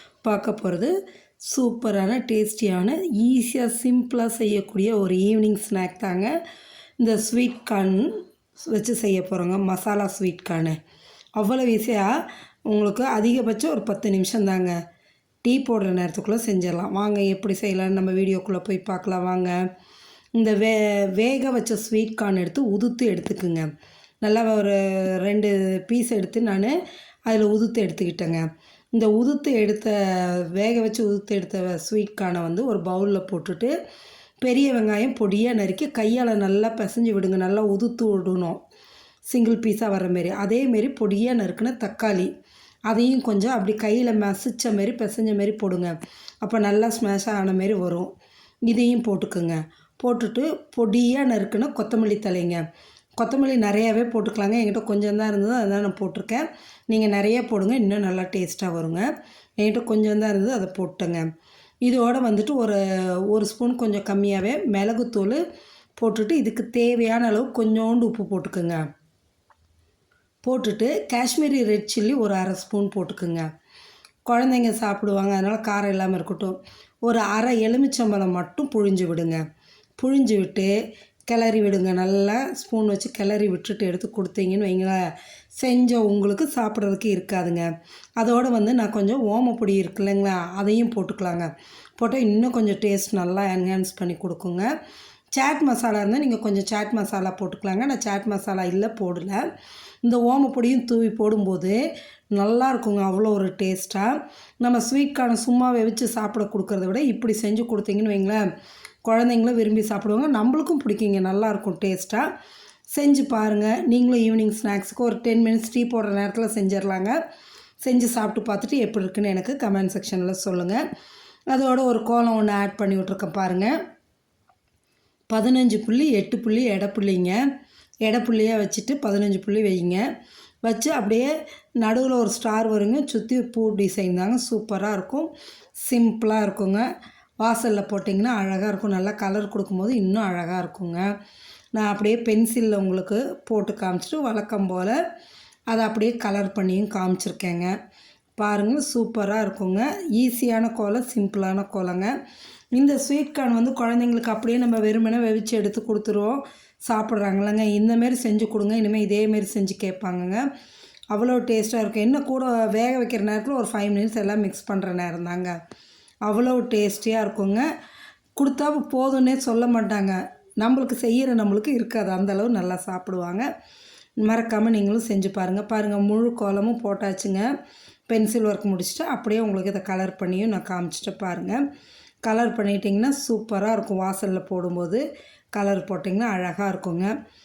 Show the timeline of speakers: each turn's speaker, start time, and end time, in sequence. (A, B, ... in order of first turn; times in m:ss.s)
0:00.2-0:06.4 A
0:07.0-0:10.8 A
0:11.4-0:14.8 A
0:15.4-0:19.7 A
0:20.4-0:23.7 A
0:24.2-0:33.7 A
0:34.4-0:38.6 A
0:39.3-0:42.3 A
0:42.9-0:48.1 A
0:48.7-0:52.6 A
0:53.2-1:01.3 A
1:01.8-1:05.4 A
1:06.0-1:08.8 A
1:10.4-1:13.5 A
1:14.3-1:19.4 A
1:20.0-1:20.7 A
1:21.3-1:34.7 A
1:35.3-1:39.4 A
1:40.0-1:41.8 A
1:42.3-1:48.4 A
1:49.0-1:52.3 A
1:52.9-1:57.2 A
1:57.8-2:00.8 A
2:01.5-2:03.8 A
2:05.3-2:07.4 A
2:08.1-2:10.0 A
2:10.6-2:15.3 A
2:15.8-2:16.9 A
2:17.4-2:21.1 A
2:21.7-2:25.0 A
2:25.7-2:27.7 A
2:28.4-2:32.1 A
2:32.7-2:40.4 A
2:41.1-2:45.6 A
2:46.3-2:47.7 A
2:48.4-2:53.5 A
2:54.2-2:57.5 A
2:58.1-3:01.6 A
3:02.2-3:05.0 A
3:05.6-3:07.1 A